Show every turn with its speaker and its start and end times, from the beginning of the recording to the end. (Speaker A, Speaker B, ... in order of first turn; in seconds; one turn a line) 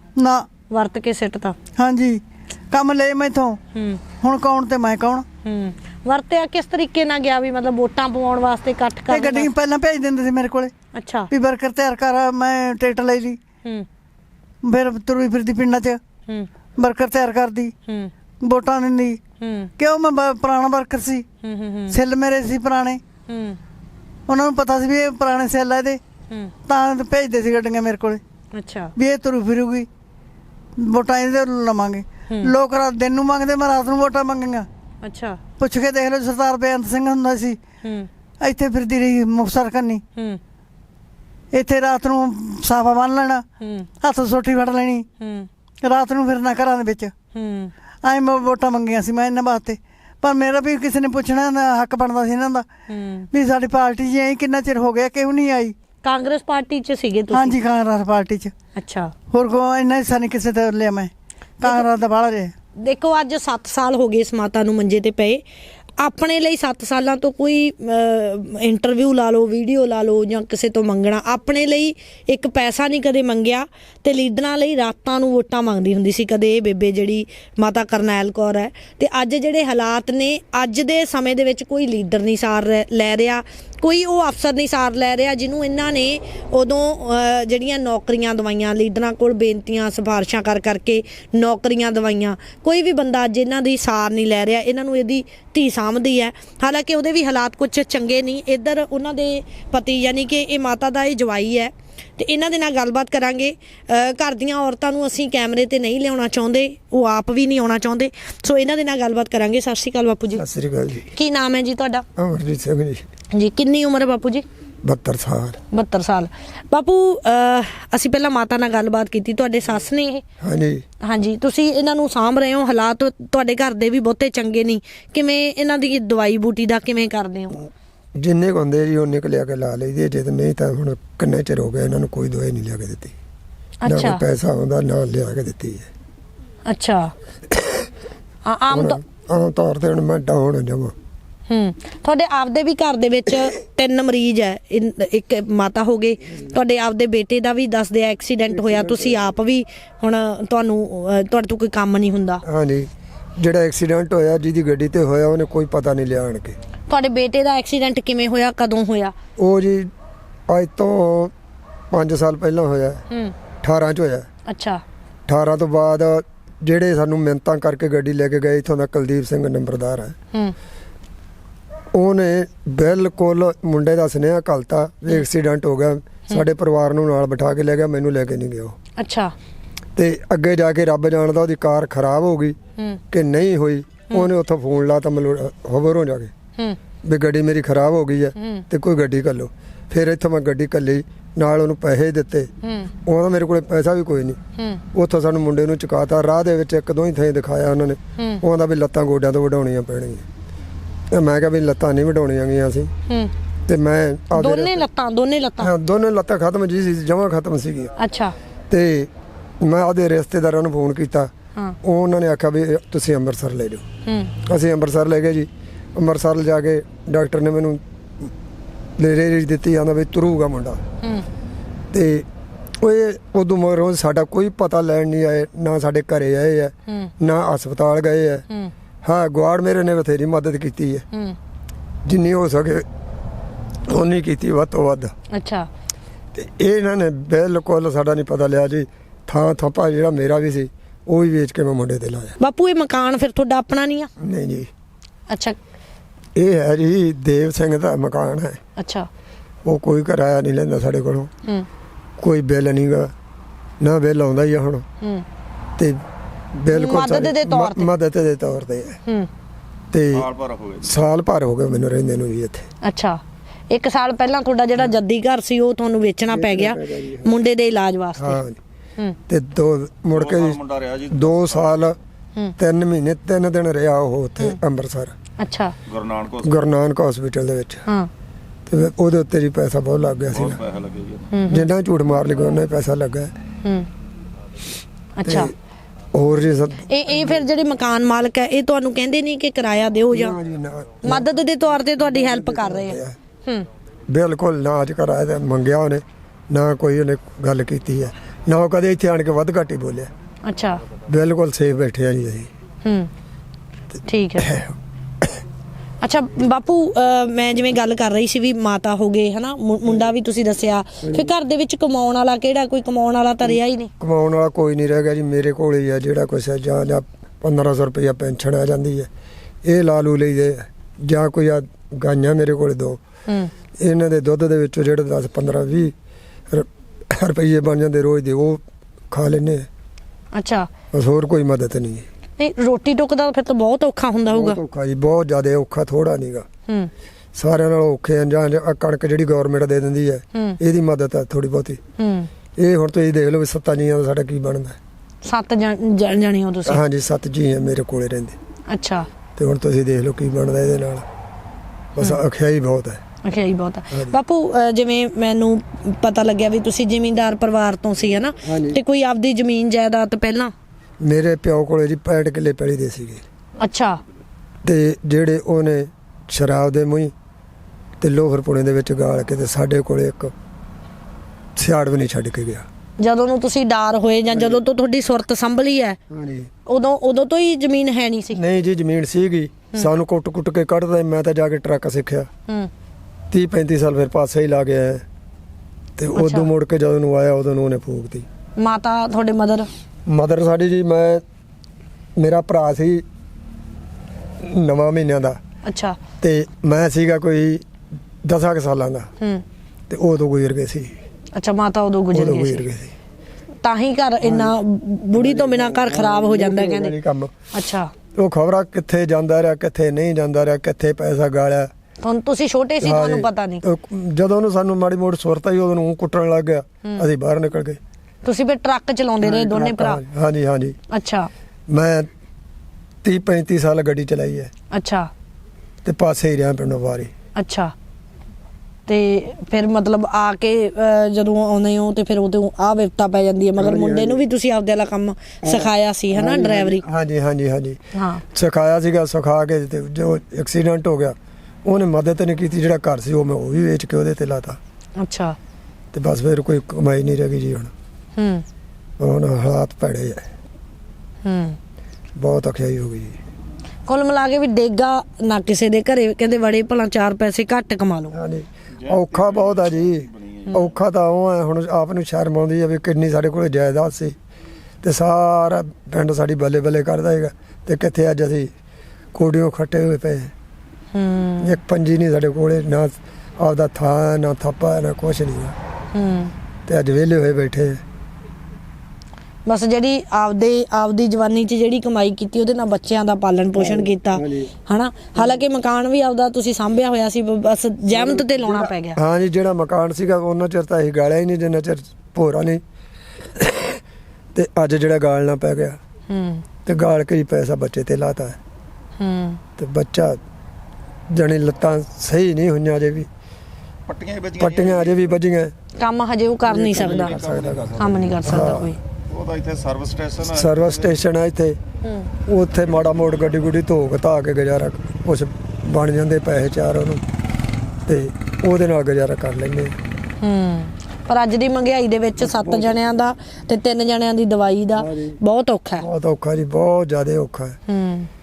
Speaker A: 0.2-0.5
Speaker B: 0.7-1.6
Speaker A: 1.8-3.6
Speaker B: 3.7-4.0
Speaker A: 4.2-5.2
Speaker B: 5.4-9.5
Speaker A: 9.1-10.7
Speaker B: 10.9-11.3
Speaker A: 11.3-13.4
Speaker A: 14.6-16.0
Speaker A: 16.8-17.7
Speaker B: 17.9-18.1
Speaker A: 18.4-19.2
Speaker B: 19.4-19.7
Speaker A: 19.8-21.2
Speaker B: 21.4-22.0
Speaker A: 21.9-23.0
Speaker B: 23.3-23.6
Speaker A: 24.3-26.0
Speaker A: 26.7-28.2
Speaker B: 28.5-28.9
Speaker A: 29.0-29.9
Speaker A: 30.8-34.7
Speaker B: 35.0-35.4
Speaker A: 35.6-37.6
Speaker B: 37.8-38.1
Speaker A: 38.4-40.0
Speaker A: 41.5-43.5
Speaker B: 43.6-43.9
Speaker A: 44.0-45.1
Speaker B: 45.2-45.5
Speaker A: 45.8-47.1
Speaker B: 47.3-47.7
Speaker A: 48.0-52.7
Speaker B: 52.9-53.3
Speaker A: 53.3-55.8
Speaker B: 56.0-57.6
Speaker A: 57.3-58.5
Speaker B: 58.8-59.1
Speaker A: 59.3-62.5
Speaker B: 62.8-65.4
Speaker B: 66.0-110.4
Speaker C: 110.3-111.1
Speaker B: 111.1-112.0
Speaker C: 112.2-113.0
Speaker B: 113.3-114.5
Speaker C: 114.8-115.6
Speaker B: 115.7-120.2
Speaker C: 120.4-120.8
Speaker B: 121.0-127.6
Speaker C: 128.2-133.2
Speaker B: 133.8-134.2
Speaker C: 133.9-135.9
Speaker B: 136.7-137.1
Speaker C: 137.5-137.9
Speaker B: 138.5-139.0
Speaker C: 138.7-140.9
Speaker B: 141.5-152.4
Speaker C: 148.5-149.2
Speaker C: 152.4-156.6
Speaker B: 156.9-159.2
Speaker C: 159.4-159.9
Speaker C: 160.5-161.3
Speaker C: 161.9-163.0
Speaker C: 163.6-164.3
Speaker B: 164.5-164.8
Speaker C: 165.3-170.2
Speaker C: 171.9-178.8
Speaker B: 179.0-179.3
Speaker C: 180.0-182.6
Speaker C: 183.1-186.3
Speaker C: 187.0-192.5
Speaker B: 188.4-188.7
Speaker B: 192.6-192.9
Speaker C: 193.1-194.4
Speaker B: 194.6-194.8
Speaker C: 194.9-200.2
Speaker B: 198.2-198.4
Speaker C: 201.1-202.9
Speaker C: 203.7-204.8
Speaker B: 204.4-205.7
Speaker C: 205.6-207.9
Speaker B: 208.0-208.3
Speaker C: 208.7-213.8
Speaker B: 214.1-214.3
Speaker C: 214.4-218.3
Speaker C: 219.0-220.8
Speaker C: 221.9-222.3
Speaker C: 222.8-228.5
Speaker C: 229.0-231.1
Speaker C: 232.1-232.9
Speaker C: 233.9-235.1
Speaker B: 235.3-235.7
Speaker C: 236.3-242.4
Speaker B: 242.4-244.1
Speaker C: 244.2-244.7
Speaker B: 245.3-245.6
Speaker C: 246.4-248.6
Speaker B: 248.8-249.1
Speaker C: 249.7-251.3
Speaker C: 252.2-253.1
Speaker C: 253.8-254.8
Speaker C: 255.8-256.0
Speaker C: 256.6-259.0
Speaker B: 256.7-257.9
Speaker C: 259.9-260.3
Speaker D: 260.1-260.9
Speaker C: 260.8-262.7
Speaker B: 262.8-268.4
Speaker C: 266.3-267.4
Speaker C: 268.2-268.6
Speaker C: 269.3-270.6
Speaker D: 270.1-271.8
Speaker C: 271.1-272.0
Speaker C: 272.6-275.1
Speaker B: 275.4-275.8
Speaker D: 275.9-276.6
Speaker C: 276.4-277.8
Speaker C: 278.7-280.6
Speaker D: 280.3-281.3
Speaker B: 281.3-281.7
Speaker C: 281.5-283.3
Speaker B: 285.2-285.5
Speaker C: 285.2-285.5
Speaker C: 286.1-287.5
Speaker B: 286.9-290.4
Speaker C: 290.1-291.4
Speaker B: 291.1-293.6
Speaker C: 291.9-293.2
Speaker C: 294.1-300.1
Speaker B: 300.4-300.8
Speaker C: 301.1-302.5
Speaker B: 302.8-303.1
Speaker B: 304.1-304.5
Speaker C: 304.4-305.4
Speaker B: 306.0-313.9
Speaker C: 311.1-311.3
Speaker C: 313.4-319.1
Speaker C: 319.6-323.0
Speaker C: 323.8-325.9
Speaker C: 326.5-329.7
Speaker B: 330.3-330.7
Speaker C: 330.9-332.1
Speaker B: 332.4-334.6
Speaker C: 334.3-336.5
Speaker C: 337.4-341.8
Speaker B: 342.0-342.3
Speaker C: 342.6-344.8
Speaker B: 345.2-346.8
Speaker C: 346.7-348.4
Speaker B: 348.7-349.1
Speaker C: 349.4-351.1
Speaker C: 351.9-353.0
Speaker B: 353.2-360.5
Speaker C: 358.4-358.8
Speaker C: 361.0-363.3
Speaker B: 363.6-364.0
Speaker C: 364.6-367.1
Speaker C: 368.0-370.3
Speaker C: 371.6-372.7
Speaker B: 373.0-376.0
Speaker C: 374.3-374.6
Speaker C: 376.1-376.5
Speaker B: 376.7-378.4
Speaker C: 378.3-382.3
Speaker C: 383.3-385.1
Speaker C: 386.0-388.3
Speaker B: 386.1-386.5
Speaker B: 388.6-389.7
Speaker C: 390.1-391.2
Speaker C: 392.2-393.1
Speaker C: 394.4-395.4
Speaker B: 395.7-396.0
Speaker C: 396.2-397.7
Speaker C: 398.2-399.1
Speaker C: 399.9-401.0
Speaker B: 401.4-402.7
Speaker C: 402.1-402.9
Speaker B: 403.6-406.9
Speaker C: 404.2-404.6
Speaker C: 405.1-407.3
Speaker B: 407.5-407.9
Speaker C: 408.1-411.7
Speaker B: 412.0-413.6
Speaker C: 412.8-417.8
Speaker B: 418.2-420.0
Speaker C: 419.2-420.8
Speaker B: 420.9-421.3
Speaker C: 421.7-422.1
Speaker C: 423.0-424.5
Speaker B: 424.7-425.1
Speaker C: 425.8-427.1
Speaker B: 427.4-427.7
Speaker B: 428.9-436.9
Speaker C: 433.6-434.2
Speaker C: 435.4-437.8
Speaker B: 437.9-438.2
Speaker C: 438.3-444.6
Speaker B: 445.0-445.4
Speaker C: 445.9-447.7
Speaker B: 448.2-448.4
Speaker C: 449.0-450.3
Speaker B: 451.2-451.6
Speaker C: 452.2-453.2
Speaker B: 453.9-458.1
Speaker C: 458.1-464.1
Speaker D: 458.8-460.7
Speaker C: 464.8-468.5
Speaker C: 469.1-470.3
Speaker B: 470.9-471.6
Speaker C: 471.4-475.6
Speaker B: 475.9-476.3
Speaker C: 476.7-477.8
Speaker B: 479.5-489.0
Speaker C: 483.6-484.5
Speaker C: 487.9-492.6
Speaker C: 493.4-493.8
Speaker C: 494.3-495.8
Speaker B: 496.1-496.4
Speaker C: 496.6-498.4
Speaker B: 499.0-499.4
Speaker C: 499.6-500.2
Speaker C: 501.1-503.1
Speaker D: 503.9-505.1
Speaker C: 504.4-505.5
Speaker B: 505.8-507.1
Speaker C: 506.5-508.7
Speaker D: 506.6-508.5
Speaker B: 507.8-508.8
Speaker D: 509.1-511.0
Speaker C: 510.3-511.6
Speaker B: 511.8-512.1
Speaker C: 512.3-517.0
Speaker D: 512.8-513.2
Speaker C: 517.9-519.8
Speaker B: 520.2-525.9
Speaker C: 522.2-522.8
Speaker C: 524.8-525.2
Speaker C: 525.8-527.6
Speaker B: 527.7-528.1